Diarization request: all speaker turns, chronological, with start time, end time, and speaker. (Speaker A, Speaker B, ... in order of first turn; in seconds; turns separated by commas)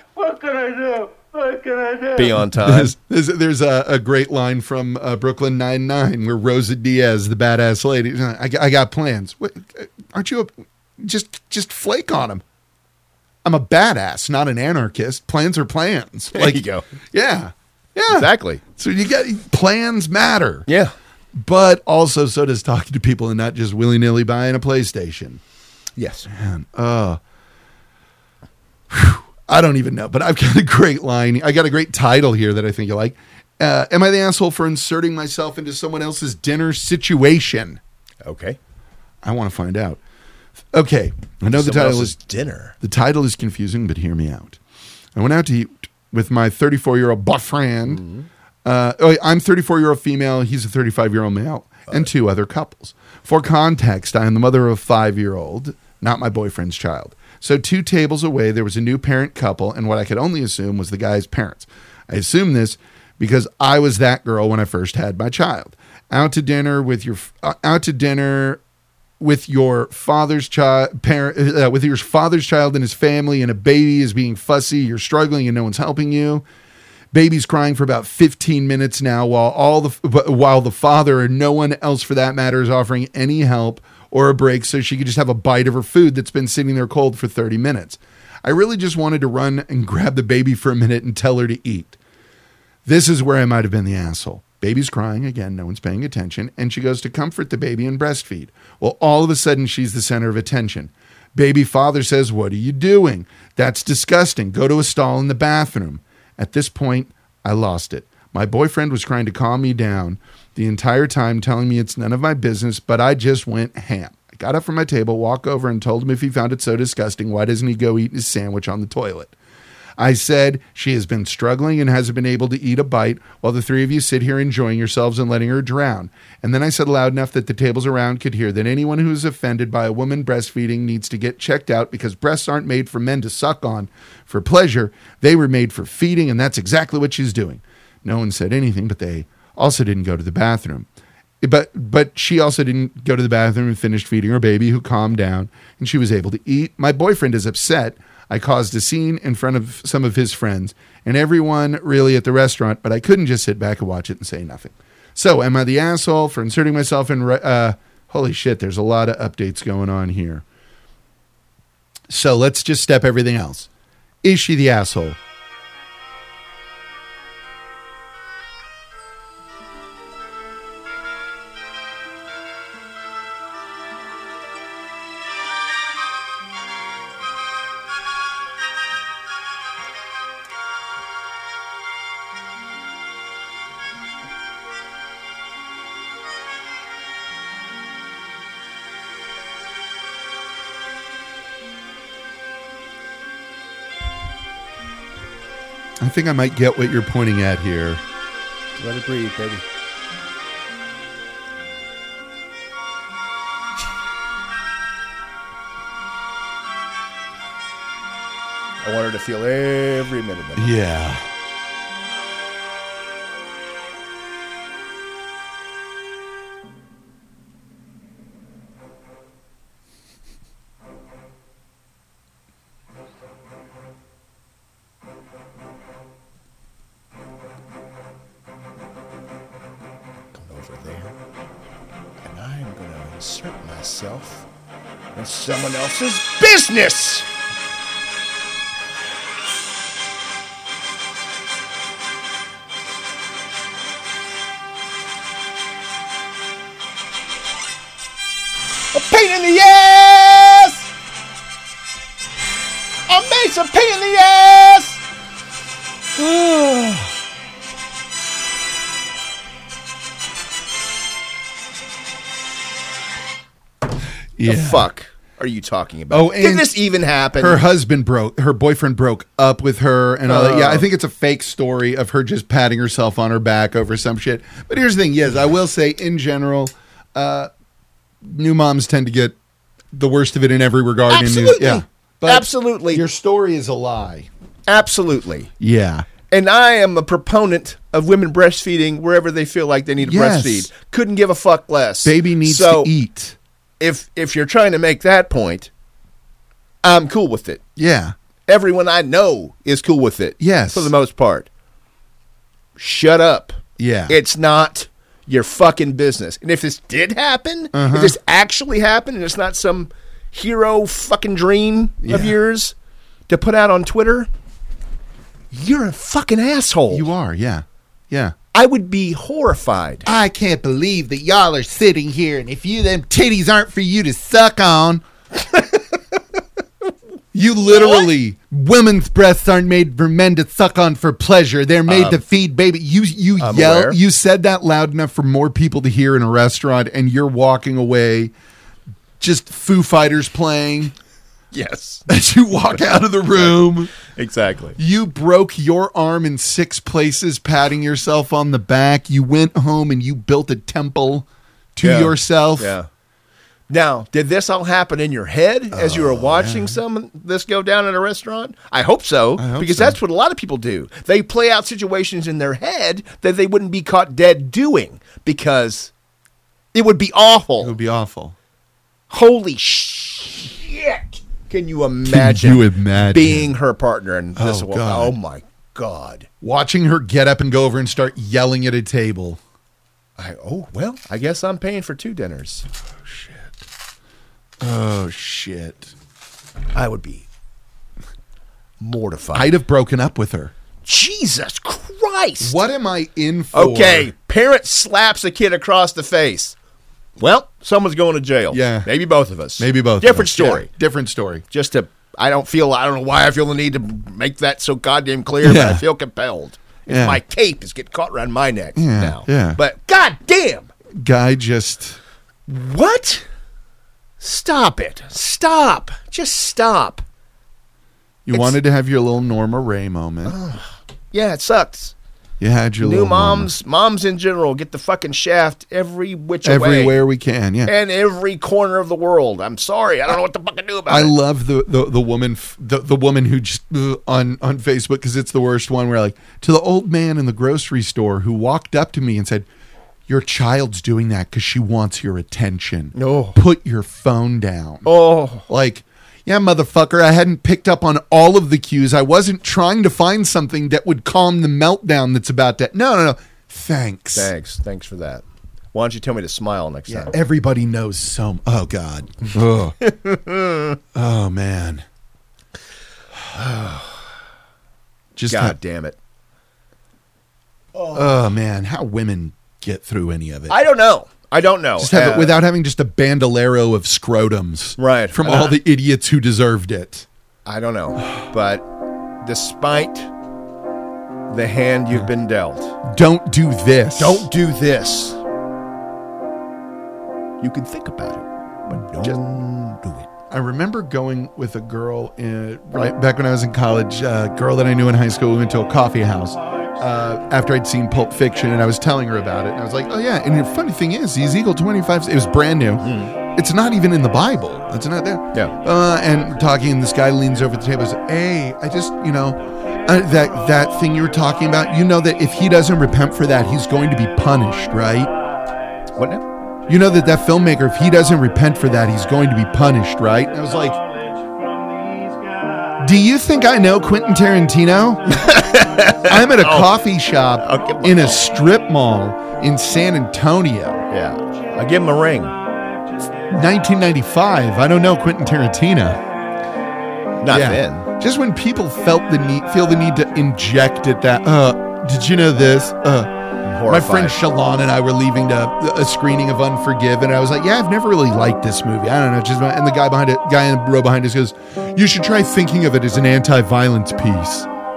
Speaker A: 0.2-2.0, Speaker B: 2.1-2.9, Speaker C: 2.4-12.4, Speaker C: 13.4-20.7, Speaker B: 16.3-16.8, Speaker B: 18.1-18.6, Speaker B: 20.7-20.9, Speaker C: 21.4-25.4, Speaker B: 26.0-26.3, Speaker C: 26.3-27.2, Speaker C: 28.9-37.8, Speaker B: 38.2-38.6, Speaker C: 39.2-40.0, Speaker C: 40.7-42.2, Speaker B: 41.5-42.7, Speaker C: 42.8-44.6, Speaker C: 45.1-48.0, Speaker B: 47.9-48.3, Speaker C: 48.6-68.6, Speaker C: 69.2-76.4, Speaker C: 77.1-92.0, Speaker C: 92.8-119.3, Speaker C: 120.0-140.9, Speaker C: 141.4-160.4, Speaker C: 162.1-163.7, Speaker C: 164.2-165.2, Speaker C: 196.0-198.0, Speaker B: 198.8-199.6, Speaker B: 208.8-210.8, Speaker C: 210.6-211.2, Speaker B: 230.3-231.1, Speaker B: 232.2-234.5, Speaker B: 235.1-237.3, Speaker B: 248.9-250.9, Speaker B: 253.1-255.0, Speaker C: 256.1-257.1, Speaker C: 264.4-264.9, Speaker B: 264.4-267.6, Speaker C: 266.1-266.8, Speaker C: 267.4-277.5, Speaker B: 270.3-270.9, Speaker C: 278.2-279.4, Speaker C: 279.9-284.3, Speaker B: 281.1-283.0, Speaker B: 284.7-285.5, Speaker C: 285.6-286.1, Speaker B: 286.3-292.9, Speaker C: 290.0-290.7, Speaker C: 292.0-293.4, Speaker B: 293.8-295.7, Speaker B: 296.8-297.6, Speaker C: 297.8-298.1, Speaker B: 298.5-301.5, Speaker C: 300.4-300.9, Speaker B: 302.8-303.5, Speaker C: 303.8-304.1, Speaker B: 304.1-312.7, Speaker C: 307.7-308.2, Speaker C: 312.0-312.4, Speaker B: 313.3-314.3, Speaker B: 315.5-317.1, Speaker C: 316.9-318.3, Speaker B: 318.5-320.1, Speaker C: 320.0-325.1, Speaker C: 327.3-338.3, Speaker B: 327.7-328.1, Speaker B: 331.9-332.2, Speaker B: 333.4-334.0, Speaker C: 339.2-340.9, Speaker B: 341.5-342.0, Speaker C: 342.1-343.9, Speaker B: 343.3-344.8, Speaker C: 344.8-352.8, Speaker B: 351.8-352.9, Speaker B: 353.7-365.9, Speaker C: 355.7-356.8, Speaker C: 359.4-360.0, Speaker B: 366.7-367.7, Speaker C: 367.6-368.3, Speaker B: 369.1-376.3, Speaker C: 372.1-373.5, Speaker C: 374.4-375.1, Speaker C: 376.4-379.4, Speaker B: 380.2-382.6, Speaker C: 383.1-383.5, Speaker C: 384.6-385.9, Speaker B: 386.7-387.2, Speaker B: 388.8-389.5, Speaker C: 389.3-390.5, Speaker B: 390.8-392.5, Speaker C: 392.4-394.1, Speaker B: 393.5-396.6, Speaker B: 397.2-400.7, Speaker C: 398.5-398.9, Speaker C: 399.6-401.4, Speaker B: 401.5-410.7, Speaker C: 405.4-405.8, Speaker C: 406.9-407.2, Speaker C: 408.7-409.6, Speaker C: 411.0-412.0, Speaker B: 412.5-413.2, Speaker B: 414.2-417.0, Speaker C: 418.2-420.4, Speaker B: 418.3-418.6, Speaker B: 420.2-421.9, Speaker C: 422.4-423.5, Speaker B: 422.8-427.0, Speaker C: 426.4-427.7, Speaker B: 427.6-431.1, Speaker C: 430.9-439.5, Speaker C: 440.1-444.9, Speaker B: 442.9-443.4, Speaker B: 444.8-445.4, Speaker C: 445.4-454.3, Speaker B: 454.1-457.1, Speaker C: 456.9-459.8, Speaker B: 459.8-460.8, Speaker C: 460.9-461.8, Speaker B: 463.3-464.0, Speaker C: 465.1-465.6, Speaker B: 465.3-465.9, Speaker B: 467.8-468.1, Speaker C: 467.9-470.6, Speaker B: 470.5-472.4, Speaker C: 471.8-477.1, Speaker B: 474.8-475.6, Speaker B: 477.4-478.7, Speaker B: 479.2-480.1, Speaker B: 481.3-482.8, Speaker C: 482.8-484.3, Speaker B: 483.9-485.2, Speaker B: 487.4-490.1, Speaker C: 490.3-515.1, Speaker B: 502.8-503.1, Speaker B: 516.0-516.2, Speaker C: 516.7-520.8, Speaker A: 522.2-522.6, Speaker C: 522.8-525.4, Speaker B: 525.1-526.7, Speaker C: 526.0-530.8, Speaker B: 527.4-528.3, Speaker B: 530.9-532.4, Speaker C: 533.3-536.0, Speaker B: 537.2-537.9, Speaker C: 537.3-543.1, Speaker B: 543.4-544.2, Speaker C: 543.6-554.5